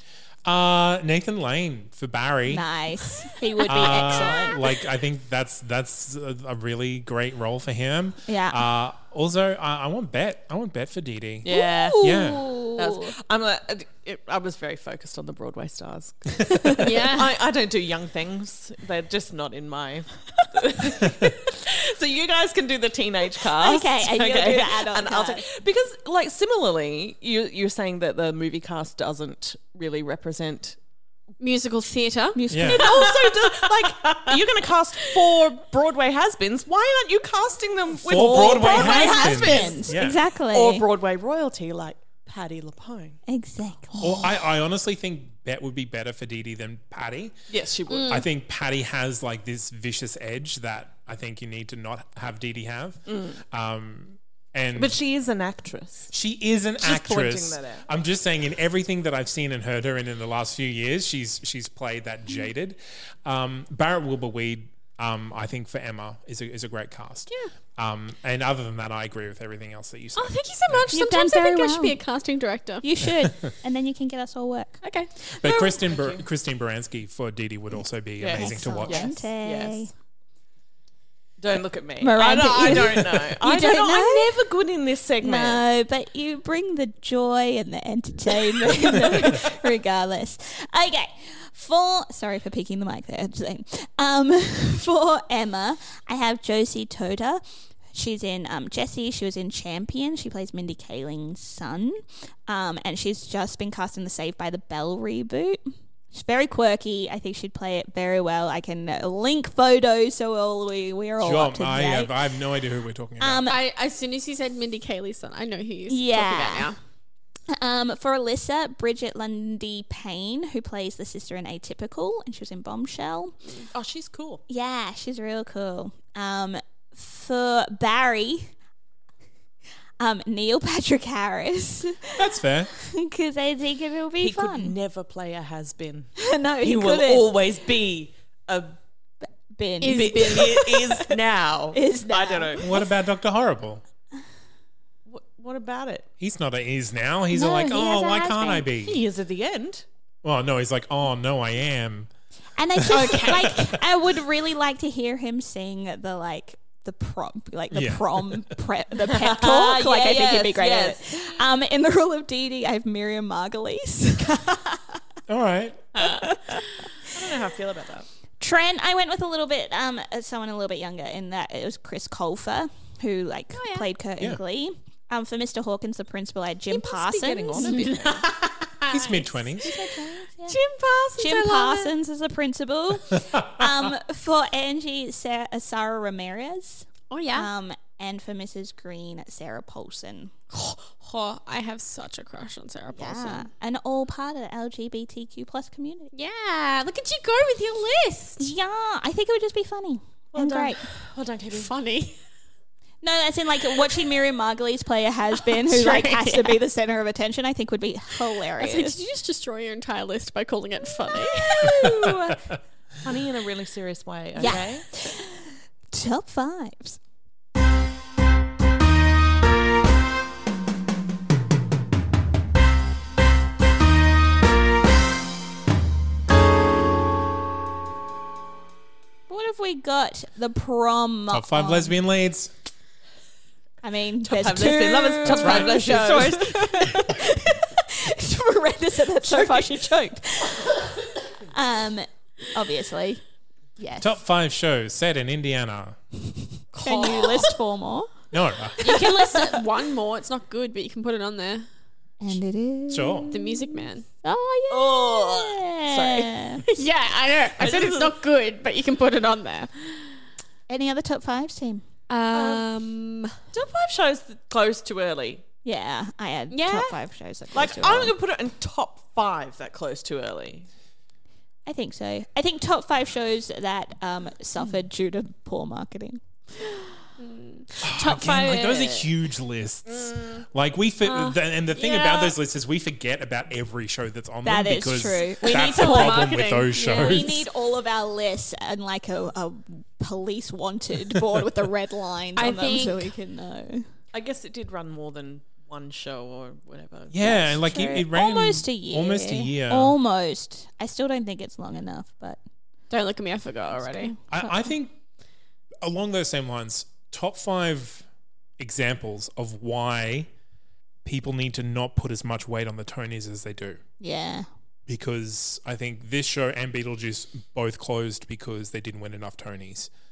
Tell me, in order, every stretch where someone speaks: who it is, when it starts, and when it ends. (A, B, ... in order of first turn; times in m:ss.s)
0:00.4-0:02.6 A
0:02.5-0:04.6 B
0:03.6-0:11.4 A
0:08.3-0:08.6 B
0:11.4-0:12.0 C
0:11.5-0:13.1 B
0:12.0-0:12.5 A
0:12.8-0:30.8 C
0:16.8-0:17.3 D
0:23.6-0:25.4 B
0:31.4-0:33.1 D
0:32.3-0:33.2 B
0:32.5-0:32.9 A
0:32.7-0:43.2 C
0:38.0-0:40.2 A
0:38.1-0:40.8 B
0:43.3-0:44.3 B
0:44.0-0:47.3 A
0:47.5-0:48.3 C
0:47.9-0:48.2 D
0:48.1-0:55.0 A
0:53.1-0:53.4 C
0:54.7-0:56.1 C
0:56.1-1:10.9 A
0:56.8-0:57.8 C
1:10.2-1:12.9 D
1:10.9-1:12.0 B
1:12.8-1:14.8 B
1:14.8-1:15.1 D
1:15.4-1:19.1 A
1:15.4-1:16.2 C
1:18.2-1:19.9 C
1:18.3-1:19.9 B
1:21.4-1:25.6 C
1:22.0-1:24.4 B
1:25.2-1:37.4 B
1:28.9-1:29.3 C
1:37.9-1:45.6 B
1:46.1-1:52.1 B
1:51.2-1:53.5 A
1:53.2-1:53.6 B
1:53.5-1:56.8 D
1:55.9-1:56.7 B
1:57.5-2:03.4 B
2:03.7-2:04.4 C
2:04.5-2:08.5 B
2:10.0-2:14.7 B
2:12.1-2:12.7 A
2:14.2-2:18.8 C
2:16.2-2:17.3 B
2:19.5-2:21.1 B
2:19.8-2:20.6 D
2:19.9-2:22.8 C
2:21.7-2:22.7 B
2:22.6-2:23.8 A
2:25.0-2:26.1 C
2:26.2-2:29.0 A
2:27.3-2:28.7 B
2:28.8-2:29.8 C
2:30.2-2:32.1 A
2:32.6-2:45.0 B
2:32.8-2:33.8 A
2:32.9-2:33.7 D
2:37.7-2:38.5 A
2:39.0-2:41.4 C
2:45.3-2:45.9 A
2:46.0-2:46.4 C
2:46.0-2:46.6 B
2:47.1-2:48.1 C
2:48.4-2:58.2 B
2:53.5-2:53.9 D
2:56.7-2:58.3 C
2:58.9-2:59.7 A
2:58.9-2:59.2 D
2:59.6-3:00.6 B
3:00.4-3:01.9 D
3:01.2-3:10.3 B
3:07.1-3:07.5 D
3:10.5-3:13.5 D
3:12.9-3:16.1 B
3:16.1-3:18.5 D
3:18.4-3:20.8 B
3:20.3-3:21.7 C
3:21.5-3:22.2 D
3:23.0-3:29.0 B
3:25.4-3:26.6 D
3:28.6-3:31.9 D
3:31.3-3:32.4 B
3:31.8-3:32.3 A
3:33.0-3:34.9 C
3:34.4-3:37.0 B
3:49.3-3:52.0 B
3:51.3-3:52.5 A
3:53.8-4:00.8 B
3:54.2-3:56.9 C
3:55.2-3:56.1 A
3:59.2-3:59.7 C
4:01.5-4:03.2 B
4:03.8-4:04.2 B
4:04.0-4:06.0 A
4:06.7-4:07.6 D
4:06.8-4:08.1 B
4:08.3-4:09.0 A
4:08.8-4:11.6 D
4:08.8-4:09.6 B
4:12.2-4:16.6 B
4:12.9-4:13.3 A
4:13.3-4:14.0 D
4:14.7-4:16.6 C
4:16.6-4:20.1 D
4:17.6-4:18.1 C
4:20.7-4:21.8 B
4:22.1-4:23.4 D
4:22.3-4:22.6 C
4:23.5-4:25.4 C
4:25.6-4:28.1 B
4:26.5-4:27.0 D
4:27.5-4:30.7 C
4:31.6-4:36.2 B
4:37.2-4:39.1 D
4:37.8-4:47.5 A
4:39.9-4:40.4 C
4:41.0-4:42.4 D
4:44.4-4:46.3 B
4:45.3-4:47.4 D
4:46.8-4:53.8 B
4:52.4-4:53.1 D
4:54.1-4:57.7 C
4:57.1-5:00.0 A
4:57.6-5:02.4 B
5:02.9-5:04.1 D
5:03.8-5:04.4 B
5:04.3-5:04.9 A
5:05.8-5:08.0 A
5:08.6-5:10.3 A
5:11.0-5:13.8 A
5:14.0-5:14.4 B
5:14.9-5:19.9 A